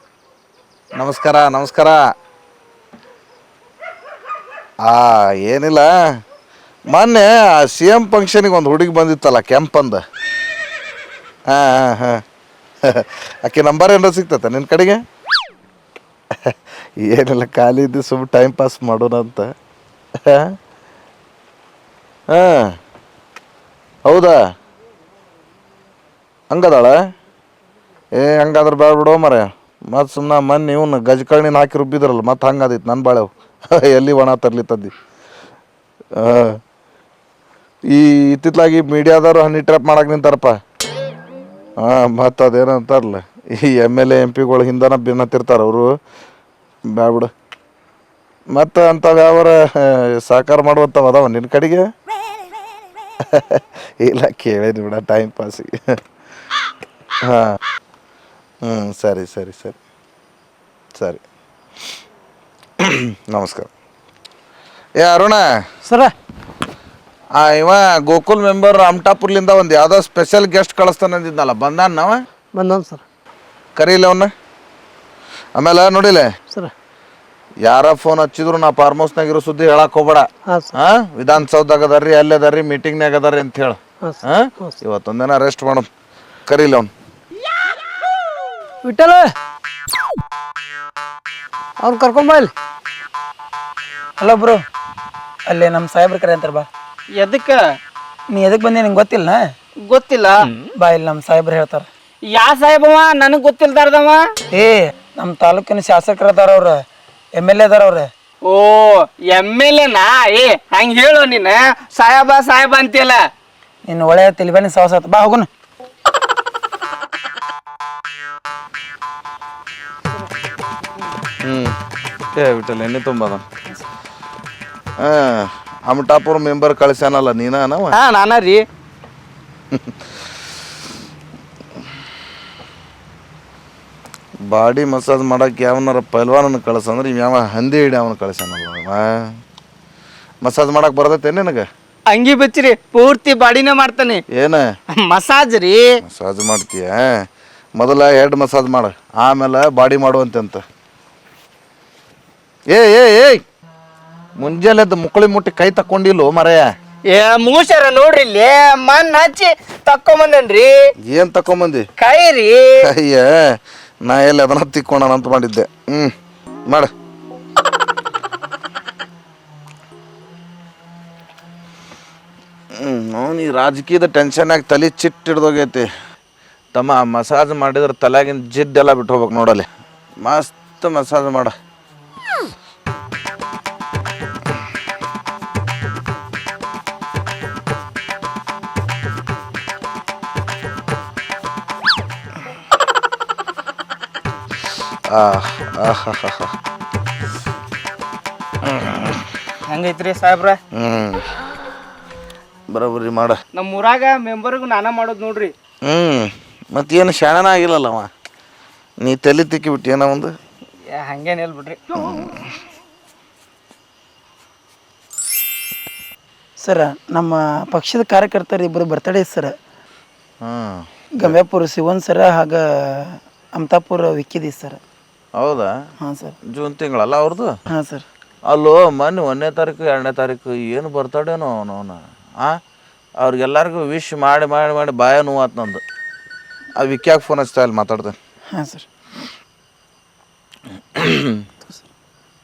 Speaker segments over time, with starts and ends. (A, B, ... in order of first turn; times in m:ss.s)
0:01.0-0:02.0 A
0:04.9-0:05.9 A
0:06.9-0:10.0 A
0:11.5-0:12.2 A
0:12.8-0:15.0 A
0:16.4-0:19.5 A
0:20.2-0:20.5 A
0:22.3-0:22.7 A
0:24.0-0:24.4 A
0:26.5-0:26.9 A
0:28.2-0:34.9 A
0:36.2-0:36.6 A
0:37.9-0:40.6 A
0:41.8-0:45.9 A
0:47.0-0:47.3 A
0:48.6-0:51.8 A
0:53.3-0:55.7 A
0:57.3-0:57.6 A
0:58.6-0:59.8 A
1:02.8-1:03.7 A
1:05.0-1:05.4 A
1:05.8-1:06.1 B
1:07.4-1:12.2 A
1:12.5-1:13.0 B
1:13.8-1:14.3 A
1:15.6-1:16.3 A
1:17.6-1:25.9 A
1:20.4-1:20.7 B
1:24.0-1:24.7 B
1:26.5-1:26.9 A
1:28.8-1:29.3 B
1:31.8-1:32.5 B
1:34.2-1:34.6 C
1:35.5-1:36.7 C
1:37.2-1:37.6 D
1:38.3-1:39.5 C
1:39.9-1:40.4 D
1:40.8-1:41.8 C
1:42.3-1:44.2 D
1:44.5-1:46.8 C
1:47.4-1:48.1 C
1:48.4-1:53.2 D
1:53.9-1:55.5 C
2:01.4-2:01.7 A
2:02.4-2:03.4 A
2:05.0-2:08.0 A
2:07.9-2:08.6 D
2:14.5-2:19.0 A
2:20.4-2:21.6 A
2:22.1-2:24.2 D
2:24.3-2:24.6 A
2:24.9-2:25.8 D
2:26.0-2:27.1 A
2:27.8-2:30.6 A
2:32.7-2:33.4 A
2:34.4-2:36.6 A
2:37.1-2:40.7 D
2:41.1-2:41.8 A
2:42.0-2:42.7 D
2:42.9-2:43.3 A
2:44.0-2:46.1 A
2:52.8-2:55.9 A
2:56.7-2:59.6 A
3:00.2-3:01.5 A
3:15.1-3:16.5 A
3:18.6-3:19.2 A
3:19.7-3:20.6 D
3:20.8-3:21.2 A
3:22.7-3:23.4 A
3:23.5-3:25.5 D
3:25.8-3:28.1 A
3:29.0-3:30.3 A
3:30.9-3:32.0 D
3:32.0-3:32.4 A
3:36.6-3:39.5 C
3:40.4-3:41.3 A
3:41.2-3:44.8 C
3:45.4-3:45.7 A
3:46.0-3:46.3 C
3:46.5-3:47.5 A
3:47.7-3:48.0 C
3:48.5-3:52.6 A
3:53.2-3:55.8 A
3:56.8-3:58.1 A
3:58.5-3:58.9 C
4:00.9-4:01.4 A